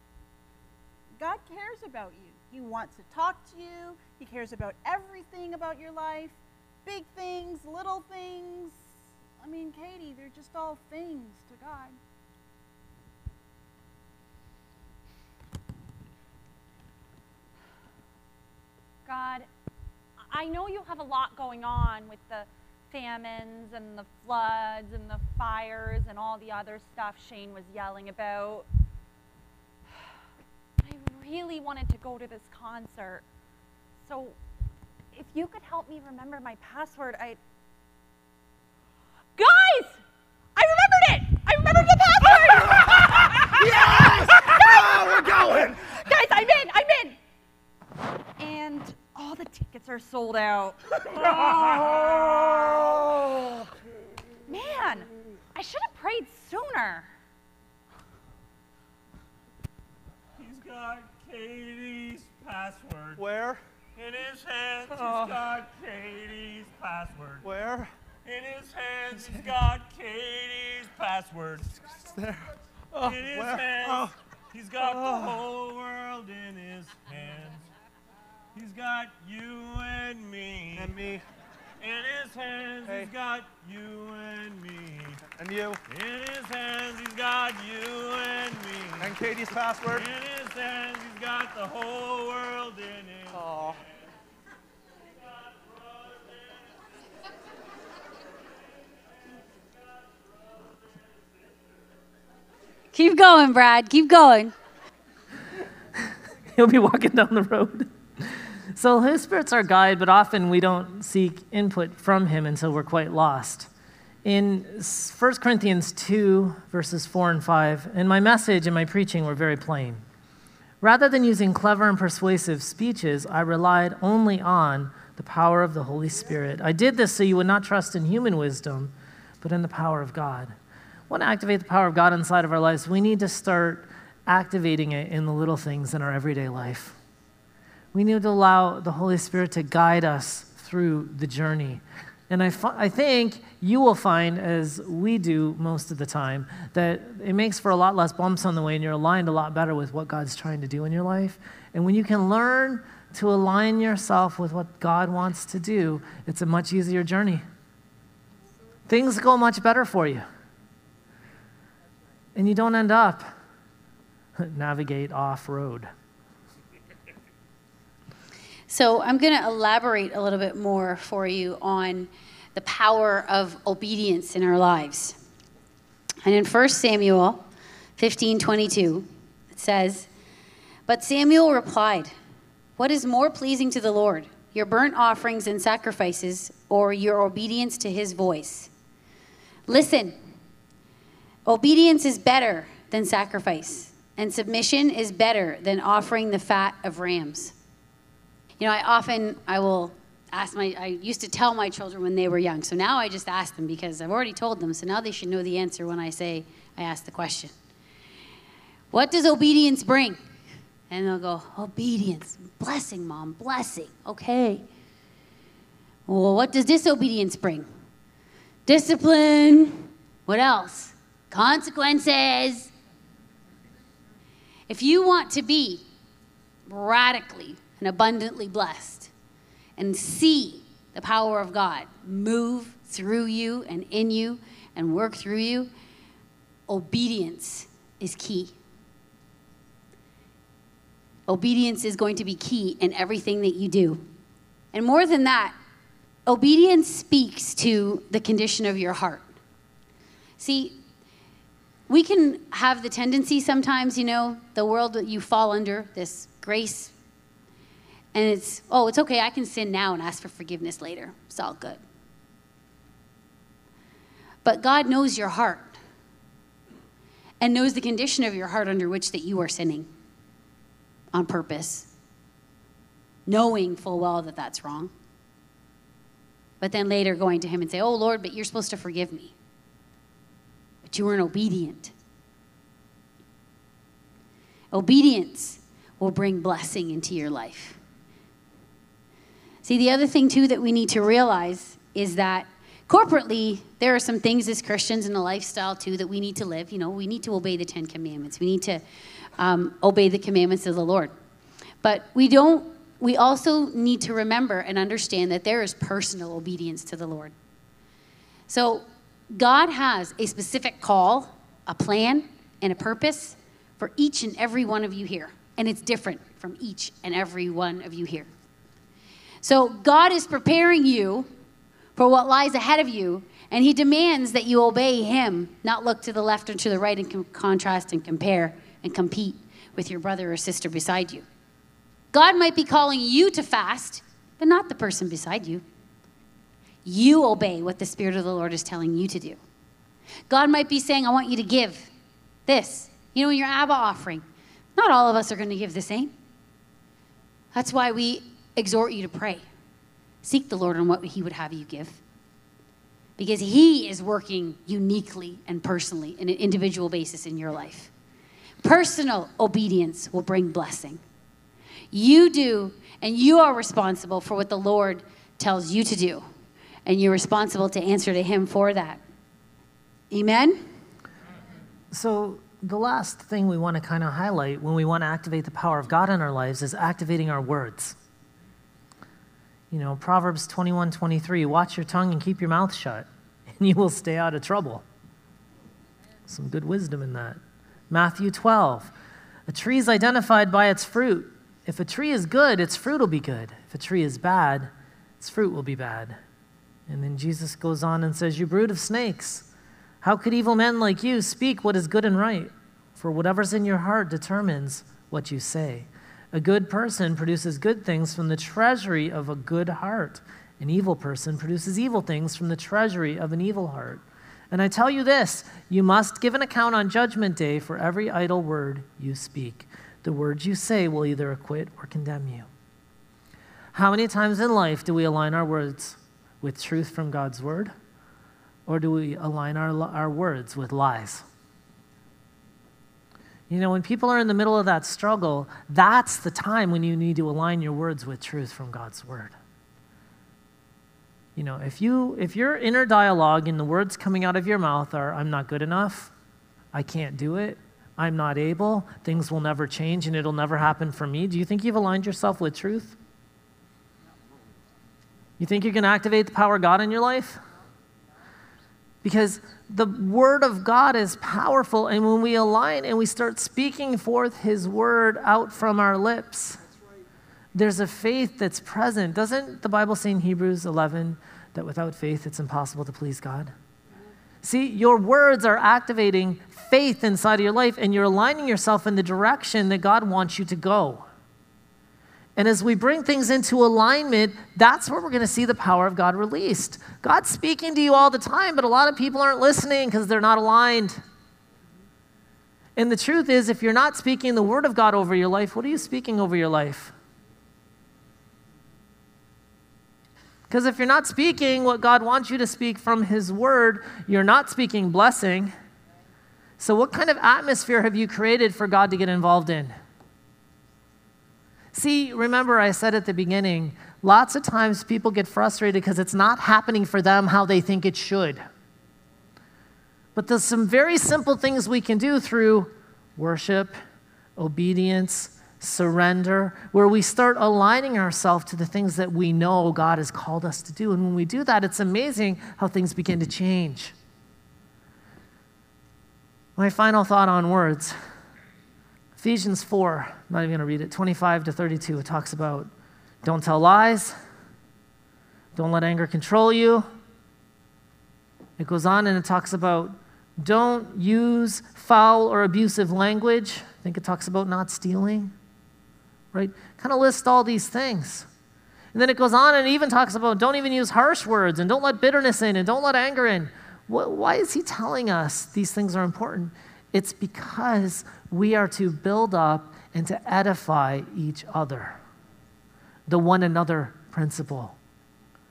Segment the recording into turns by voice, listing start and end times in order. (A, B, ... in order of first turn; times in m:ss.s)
0:01.2-0:08.8 A
0:09.4-0:12.0 A
0:19.1-0:19.5 B
0:20.3-0:28.7 B
0:30.8-0:33.2 B
0:34.1-0:34.4 B
0:35.1-0:37.4 B
0:39.4-0:40.0 B
0:40.6-0:47.2 B
0:42.3-0:45.9 C
0:48.4-0:51.8 B
0:51.1-0:52.8 D
0:51.3-0:53.7 C
0:54.5-0:57.1 B
1:00.4-1:03.2 D
1:03.2-1:03.6 C
1:04.0-1:07.5 D
1:04.9-1:05.4 C
1:07.4-1:07.9 C
1:08.2-1:11.8 D
1:12.1-1:14.1 C
1:13.0-1:17.6 D
1:14.8-1:15.4 C
1:18.5-1:20.9 D
1:20.7-1:21.2 C
1:21.8-1:25.2 D
1:22.8-1:23.1 C
1:25.3-1:25.8 C
1:25.9-1:29.2 D
1:29.0-1:30.1 C
1:29.9-1:33.7 D
1:33.3-1:33.8 C
1:35.2-1:36.6 D
1:39.6-1:41.0 D
1:42.9-1:44.5 E
1:46.0-1:53.7 F
1:54.2-2:00.0 F
2:00.8-2:10.5 F
2:11.1-2:17.0 F
2:17.9-2:37.4 F
2:38.9-2:40.2 F
2:42.4-2:43.2 F
2:44.4-2:45.9 F
2:48.7-2:55.2 E
2:56.2-2:57.4 E
2:58.0-3:00.1 E
3:00.9-3:02.1 E
3:02.8-3:08.7 E
3:09.7-3:10.2 E
3:11.5-3:17.5 E
3:18.6-3:27.5 E
3:28.9-3:30.2 E
3:30.9-3:34.6 E
3:36.1-3:37.6 E
3:38.6-3:42.7 E
3:44.7-3:45.8 E
3:46.7-3:49.1 E
3:49.8-3:55.7 E
3:56.7-3:58.6 E
4:01.3-4:04.0 E
4:04.7-4:05.6 E
4:06.3-4:09.3 E
4:10.4-4:10.8 E
4:11.9-4:16.9 E
4:18.1-4:21.8 E
4:24.4-4:25.8 E
4:27.4-4:29.9 E
4:31.1-4:31.9 E
4:33.3-4:34.9 E
4:36.6-4:39.3 E
4:40.9-4:41.9 E
4:44.7-4:47.8 E
4:49.6-4:58.8 E
4:59.4-5:01.1 E
5:01.8-5:07.3 E
5:08.5-5:18.3 E
5:19.4-5:21.3 E
5:22.0-5:31.2 E
5:32.1-5:35.6 E
5:36.8-5:39.4 E
5:40.3-5:41.9 E
5:42.5-5:44.2 E
5:44.8-5:46.1 E
5:47.5-5:49.4 E
5:50.2-5:52.0 E
5:53.2-5:57.9 E
5:58.6-6:01.0 E
6:01.9-6:06.3 E
6:06.9-6:09.0 E
6:10.1-6:10.6 E
6:11.9-6:18.0 F
6:19.7-6:24.8 F
6:26.3-6:28.9 F
6:29.5-6:36.2 F
6:36.9-6:39.5 F
6:40.0-7:02.5 F
7:03.7-7:07.7 F
7:08.6-7:11.2 F
7:13.5-7:19.4 F
7:21.4-7:26.1 F
7:26.7-7:33.0 F
7:35.4-7:37.4 F
7:39.0-7:46.6 F
7:47.5-7:53.5 F
7:54.4-8:01.1 F
8:02.4-8:11.0 F
8:12.8-8:17.0 F
8:20.5-8:25.5 F
8:26.6-8:29.8 F
8:31.7-8:38.4 F
8:40.1-8:43.7 F
8:44.4-8:53.9 F
8:56.6-8:58.0 F
8:59.2-9:02.7 F
9:03.2-9:04.1 F
9:05.6-9:06.9 F
9:08.6-9:15.3 F
9:16.3-9:18.3 F
9:18.9-9:32.0 F
9:33.1-9:34.8 F